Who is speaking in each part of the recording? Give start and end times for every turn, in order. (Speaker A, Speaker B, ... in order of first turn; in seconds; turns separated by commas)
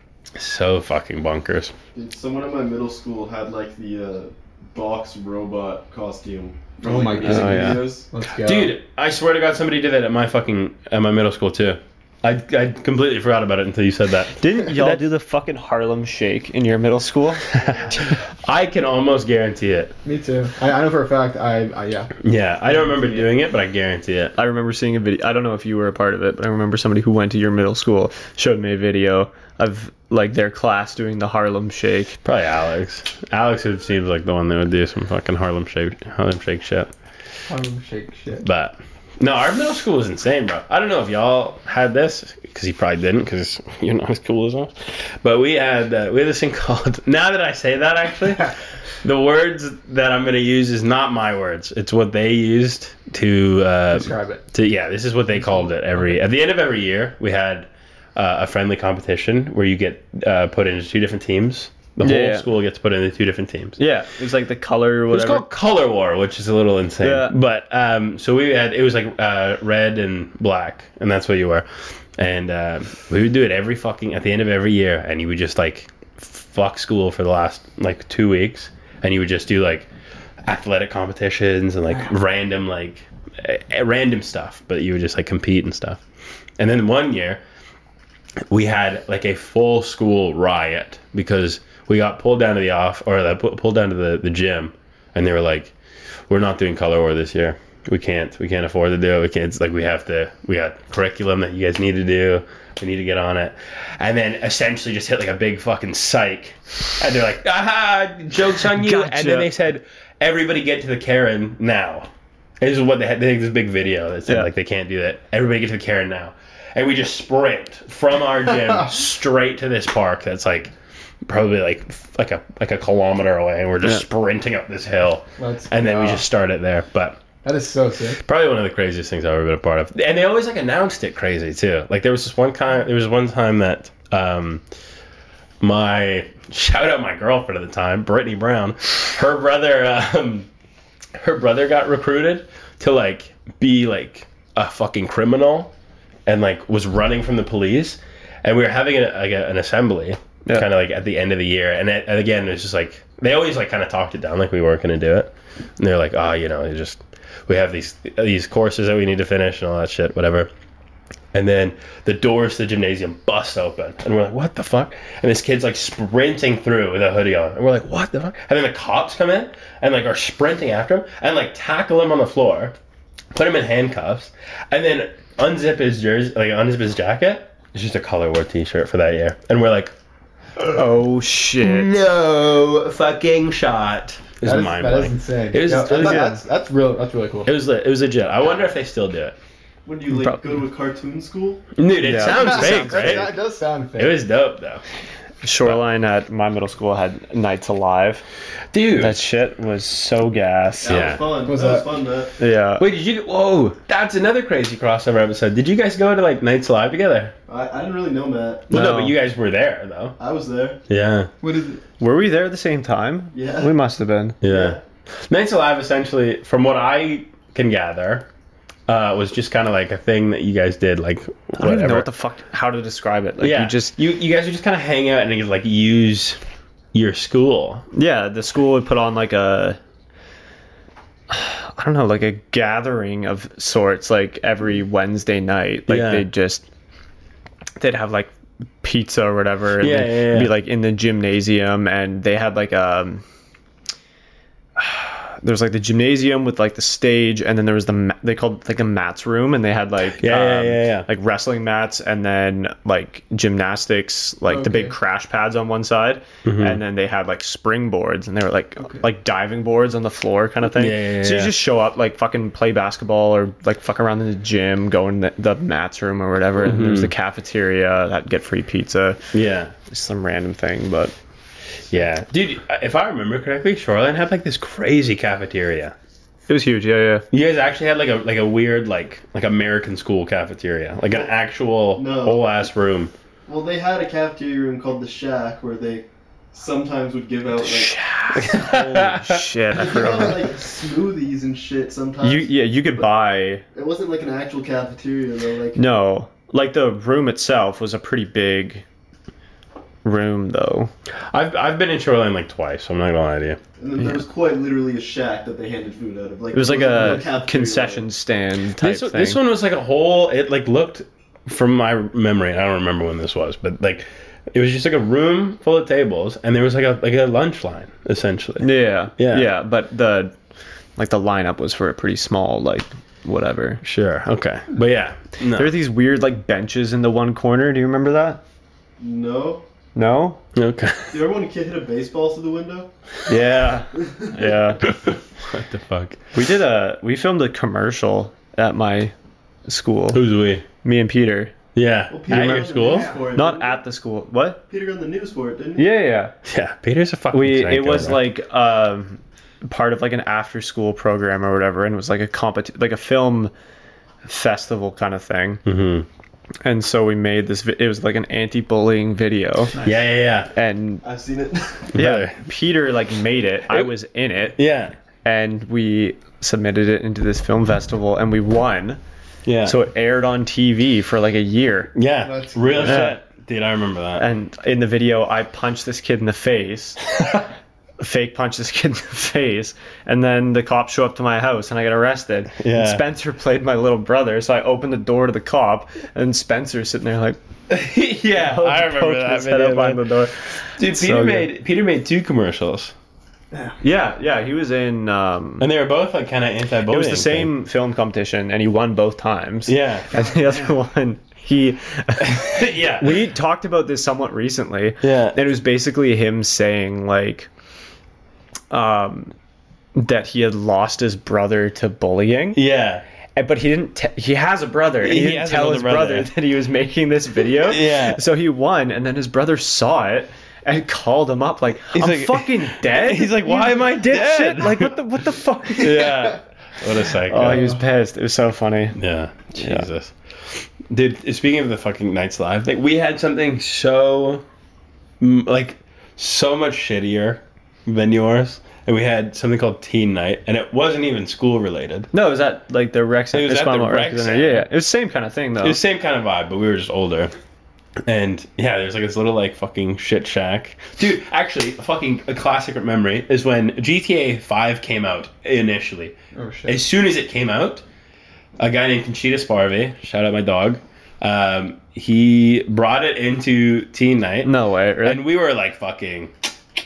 Speaker A: 0.3-1.7, Speaker B: 1.9-8.1, Speaker C: 6.8-8.7, Speaker D: 7.2-7.8, Speaker A: 8.4-15.0, Speaker D: 14.4-17.4, Speaker A: 17.6-19.9, Speaker C: 20.0-22.1, Speaker A: 22.2-24.3, Speaker D: 24.4-32.2, Speaker A: 32.2-36.9, Speaker C: 37.5-38.5, Speaker A: 38.4-63.8, Speaker C: 53.9-54.4, Speaker D: 62.0-62.5, Speaker D: 63.8-65.4, Speaker A: 65.1-71.7, Speaker D: 67.0-67.3, Speaker A: 72.2-79.9, Speaker A: 80.4-86.0, Speaker A: 86.6-87.4, Speaker A: 88.5-95.7, Speaker A: 96.3-112.1, Speaker D: 108.7-109.5, Speaker A: 112.6-120.7, Speaker A: 121.2-127.2, Speaker C: 125.4-126.2, Speaker C: 127.4-128.2, Speaker A: 128.2-134.6, Speaker A: 135.6-140.5, Speaker A: 141.2-145.7, Speaker A: 146.2-160.5, Speaker A: 161.3-172.7, Speaker A: 173.3-179.9, Speaker D: 180.6-181.9, Speaker A: 181.6-186.3, Speaker C: 184.4-187.5, Speaker D: 185.9-186.4, Speaker A: 187.4-189.3, Speaker B: 189.8-191.6, Speaker A: 191.8-193.3, Speaker D: 192.0-193.3, Speaker C: 192.2-194.2, Speaker A: 194.0-194.8, Speaker D: 195.4-198.2, Speaker A: 198.7-199.2, Speaker D: 198.9-201.1, Speaker B: 200.8-202.3, Speaker A: 200.8-201.3, Speaker C: 201.4-201.9, Speaker D: 202.4-202.8, Speaker A: 202.8-207.3, Speaker B: 207.5-208.7, Speaker A: 208.7-210.2, Speaker D: 208.7-209.2, Speaker B: 210.2-210.8, Speaker A: 210.9-211.3, Speaker C: 211.4-211.8, Speaker D: 212.0-214.4, Speaker B: 213.3-213.7, Speaker A: 214.4-218.3, Speaker B: 214.4-214.8, Speaker A: 218.9-222.1, Speaker D: 221.6-223.9, Speaker A: 223.4-226.4, Speaker A: 226.9-227.8, Speaker D: 227.9-229.8, Speaker D: 231.3-236.6, Speaker A: 235.9-236.2, Speaker D: 237.8-243.2, Speaker A: 239.8-240.5, Speaker D: 244.8-269.2, Speaker A: 250.2-251.1, Speaker C: 254.5-254.9, Speaker A: 256.4-256.8, Speaker A: 260.7-261.5, Speaker A: 266.6-267.1, Speaker A: 269.3-269.7, Speaker D: 269.9-271.1, Speaker A: 271.9-275.9, Speaker D: 276.5-277.2, Speaker A: 277.3-283.1, Speaker B: 281.9-282.4, Speaker B: 283.4-288.0, Speaker D: 287.6-290.4, Speaker A: 288.3-289.4, Speaker B: 289.7-292.5, Speaker D: 292.2-293.6, Speaker B: 293.7-295.8, Speaker D: 295.7-298.8, Speaker D: 300.0-300.9, Speaker A: 301.3-303.6, Speaker B: 303.8-308.1, Speaker D: 306.5-309.4, Speaker A: 308.8-319.5, Speaker D: 318.6-320.3, Speaker D: 321.0-323.8, Speaker A: 323.8-325.7, Speaker D: 325.5-328.4, Speaker B: 329.0-329.6, Speaker D: 329.9-330.4, Speaker A: 330.5-331.2, Speaker B: 331.1-332.9, Speaker D: 333.3-334.9, Speaker B: 334.0-334.3, Speaker A: 334.8-336.2, Speaker D: 336.3-339.1, Speaker D: 339.7-340.2, Speaker A: 340.1-340.6, Speaker D: 340.8-341.5, Speaker A: 341.7-343.1, Speaker B: 342.1-343.8, Speaker D: 342.3-342.7, Speaker C: 342.9-343.1, Speaker D: 343.3-344.6, Speaker B: 344.7-345.9, Speaker D: 345.8-346.3, Speaker A: 346.4-348.3, Speaker D: 347.3-353.5, Speaker D: 354.2-355.6, Speaker A: 355.6-356.1, Speaker D: 356.6-359.8, Speaker A: 359.8-360.5, Speaker D: 360.5-361.0, Speaker B: 361.0-361.9, Speaker A: 361.9-362.4, Speaker D: 361.9-364.6, Speaker A: 364.6-364.9, Speaker D: 365.2-369.0, Speaker A: 369.4-369.8, Speaker D: 369.6-371.9, Speaker A: 371.9-374.2, Speaker C: 372.2-373.1, Speaker D: 372.8-373.2, Speaker D: 374.2-377.0, Speaker D: 378.0-387.4, Speaker A: 382.6-383.0, Speaker A: 387.7-390.0, Speaker D: 388.3-391.5, Speaker A: 390.8-392.9, Speaker D: 393.8-395.7, Speaker A: 395.6-397.5, Speaker D: 396.9-407.5, Speaker A: 399.7-400.1, Speaker C: 400.1-400.7, Speaker A: 402.2-403.2, Speaker A: 405.0-405.4, Speaker D: 408.7-409.3, Speaker D: 409.9-412.6, Speaker A: 412.5-413.0, Speaker D: 413.4-426.4, Speaker A: 415.0-416.3, Speaker A: 417.6-418.2, Speaker A: 421.9-424.9, Speaker A: 425.8-427.7, Speaker D: 427.2-429.0, Speaker C: 427.4-427.8, Speaker A: 429.0-434.4, Speaker D: 429.6-429.9, Speaker A: 435.2-442.1, Speaker D: 442.1-445.8, Speaker A: 443.3-444.6, Speaker A: 445.6-447.3, Speaker A: 448.1-457.8, Speaker C: 456.3-456.8, Speaker A: 458.6-464.5, Speaker D: 464.4-465.2, Speaker A: 465.0-466.3